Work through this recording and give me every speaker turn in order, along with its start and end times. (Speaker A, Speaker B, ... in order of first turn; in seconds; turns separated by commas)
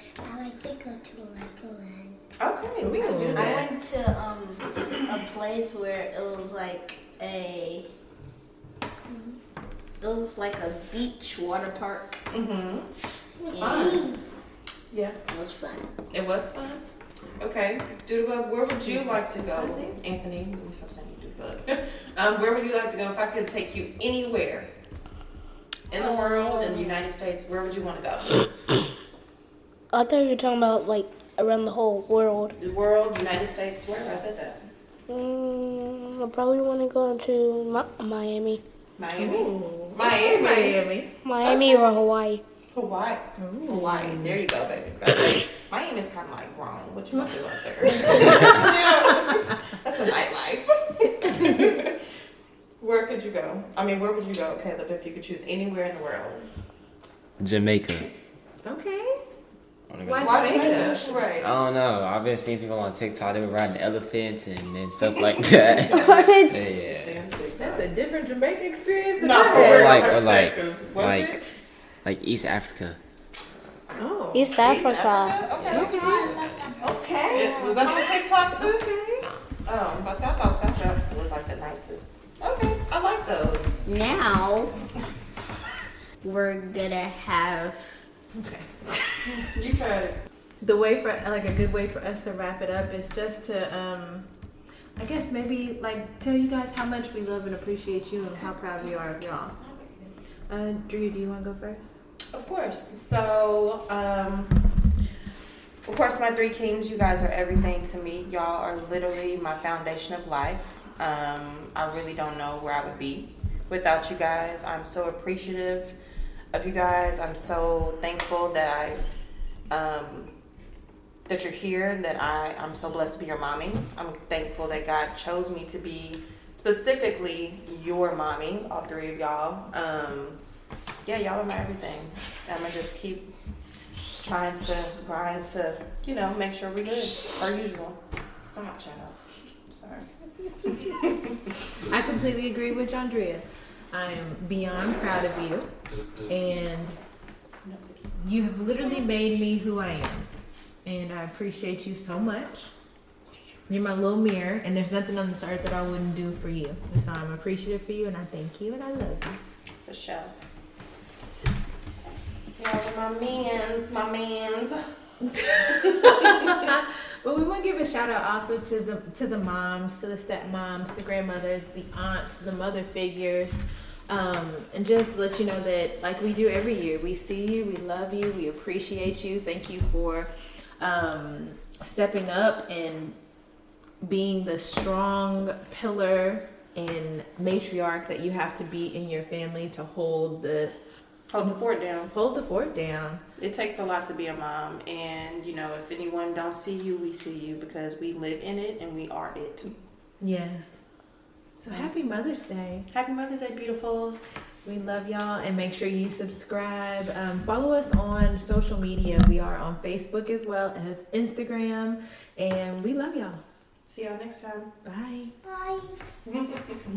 Speaker A: 0.2-2.3, Speaker B: 2.4-3.7, Speaker C: 2.8-3.4, Speaker D: 3.3-7.9, Speaker D: 10.0-12.2, Speaker B: 12.3-12.9, Speaker A: 13.4-14.2, Speaker D: 13.5-14.2, Speaker B: 13.6-14.1, Speaker B: 14.9-15.2, Speaker D: 15.3-15.9, Speaker B: 16.1-16.8, Speaker B: 17.4-24.7, Speaker C: 18.8-20.0, Speaker B: 25.9-28.4, Speaker E: 26.0-26.9, Speaker E: 29.9-32.5, Speaker B: 32.6-34.6, Speaker E: 35.1-38.6, Speaker B: 39.0-40.8, Speaker C: 39.2-41.1, Speaker E: 41.2-42.4, Speaker B: 41.4-41.8, Speaker B: 42.7-52.0, Speaker C: 43.4-44.4, Speaker C: 47.1-48.7, Speaker B: 52.8-56.5, Speaker F: 57.4-58.1, Speaker C: 58.6-59.2, Speaker F: 59.9-67.2, Speaker C: 60.0-61.2, Speaker B: 60.2-61.5, Speaker B: 65.4-67.9, Speaker D: 65.9-66.6, Speaker C: 67.6-70.0, Speaker B: 69.2-71.4, Speaker F: 69.5-71.4, Speaker F: 72.0-73.0, Speaker C: 74.0-74.5, Speaker E: 74.3-75.5, Speaker B: 74.6-76.2, Speaker C: 75.7-77.6, Speaker A: 75.8-77.9, Speaker B: 77.3-78.8, Speaker C: 78.5-79.2, Speaker B: 79.7-83.7, Speaker D: 83.8-84.7, Speaker D: 86.2-88.0, Speaker C: 88.3-88.9, Speaker B: 89.2-90.2, Speaker C: 90.6-94.3, Speaker C: 95.0-99.5, Speaker B: 98.8-100.1, Speaker C: 100.5-102.0, Speaker B: 102.3-104.5, Speaker B: 105.8-115.9, Speaker B: 116.5-119.0, Speaker B: 119.7-120.3, Speaker B: 121.3-130.4, Speaker B: 131.0-133.3, Speaker B: 134.2-139.2, Speaker B: 139.7-140.1, Speaker B: 140.6-141.2, Speaker C: 141.9-145.7, Speaker C: 146.3-147.0, Speaker B: 147.6-148.0, Speaker C: 148.2-150.3, Speaker C: 150.8-152.7, Speaker C: 153.7-159.4, Speaker B: 159.8-160.3, Speaker B: 162.6-164.8, Speaker C: 165.2-183.2, Speaker B: 165.8-166.5, Speaker C: 184.0-190.7, Speaker B: 191.3-192.1, Speaker C: 192.1-193.2, Speaker B: 193.4-199.7, Speaker C: 200.2-200.8, Speaker C: 201.6-202.9, Speaker B: 202.9-204.3, Speaker C: 204.6-213.4, Speaker B: 213.9-214.7, Speaker C: 214.8-215.3, Speaker A: 215.4-216.0, Speaker B: 216.2-216.8